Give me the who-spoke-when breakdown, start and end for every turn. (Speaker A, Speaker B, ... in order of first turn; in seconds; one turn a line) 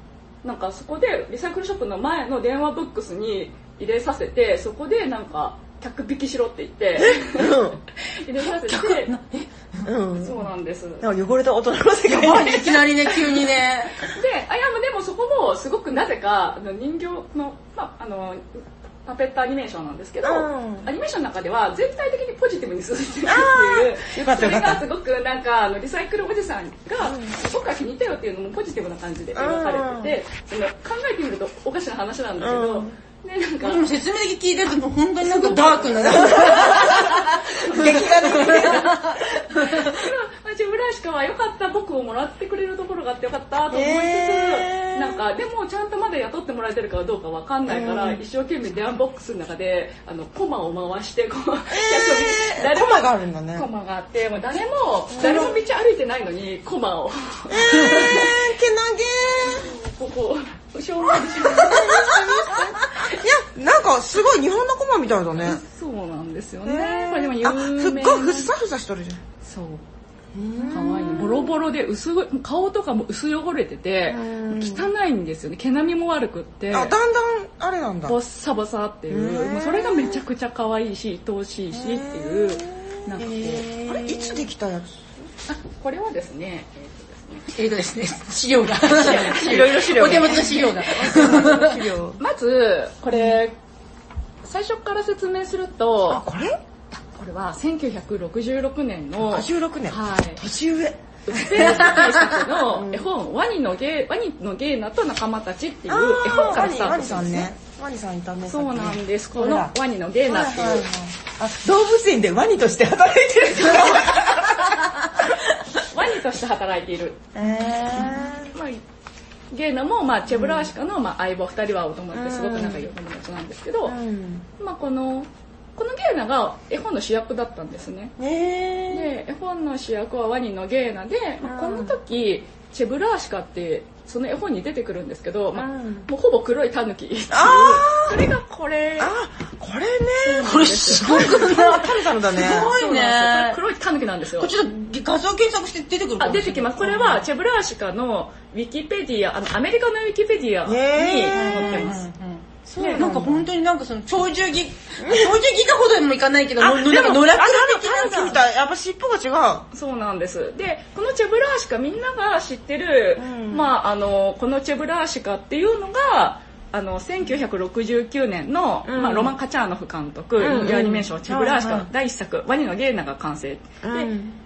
Speaker A: 0.4-9.1
Speaker B: 7.0-7.8
Speaker C: 8.5-9.9
Speaker B: 9.8-10.4
Speaker A: 10.2-11.1
Speaker B: 11.0-13.2
Speaker C: 12.0-14.1
Speaker A: 14.1-33.9
Speaker B: 20.2-20.9
Speaker B: 23.2-24.8
Speaker B: 27.0-27.4
Speaker B: 29.3-30.1
Speaker B: 32.4-32.9
Speaker C: 33.6-40.0
Speaker A: 35.2-58.5
Speaker B: 35.6-39.0
Speaker B: 43.7-45.2
Speaker B: 47.7-48.2
Speaker B: 51.7-53.7
Speaker B: 55.1-55.6
Speaker B: 57.5-59.7
Speaker A: 59.4-63.2
Speaker B: 61.2-65.6
Speaker A: 65.4-68.5
Speaker B: 66.6-69.2
Speaker A: 69.4-69.8
Speaker B: 70.3-71.6
Speaker A: 70.6-76.9
Speaker B: 74.1-74.9
Speaker B: 76.7-78.2
Speaker A: 78.1-83.7
Speaker B: 79.1-80.2
Speaker B: 81.7-85.3
Speaker A: 85.5-87.5
Speaker C: 87.5-91.8
Speaker A: 88.8-91.6
Speaker B: 89.0-92.2
Speaker A: 92.2-93.5
Speaker A: 94.4-96.2
Speaker B: 96.1-96.6
Speaker A: 96.9-100.4
Speaker B: 99.2-103.1
Speaker A: 101.2-107.5
Speaker B: 105.9-109.7
Speaker C: 106.3-107.3
Speaker A: 108.5-110.9
Speaker B: 110.2-114.9
Speaker A: 115.8-117.3
Speaker B: 117.3-118.5
Speaker A: 118.5-118.8
Speaker A: 119.5-124.0
Speaker B: 120.3-120.7
Speaker B: 122.1-122.9
Speaker B: 123.8-124.5
Speaker A: 124.6-128.1
Speaker B: 128.2-129.1
Speaker A: 128.9-139.1
Speaker B: 131.4-131.9
Speaker B: 135.5-136.1
Speaker B: 137.3-138.3
Speaker B: 139.0-142.7
Speaker A: 140.2-141.4
Speaker C: 140.2-143.6
Speaker A: 142.4-144.5
Speaker C: 144.4-147.2
Speaker A: 146.2-152.0
Speaker B: 150.6-151.9
Speaker C: 151.3-158.4
Speaker B: 152.7-153.4
Speaker A: 152.8-153.2
Speaker B: 155.0-155.3
Speaker B: 156.6-159.7
Speaker A: 159.7-174.1
Speaker B: 163.2-163.7
Speaker B: 168.8-169.3
Speaker B: 170.4-171.9
Speaker B: 173.8-174.4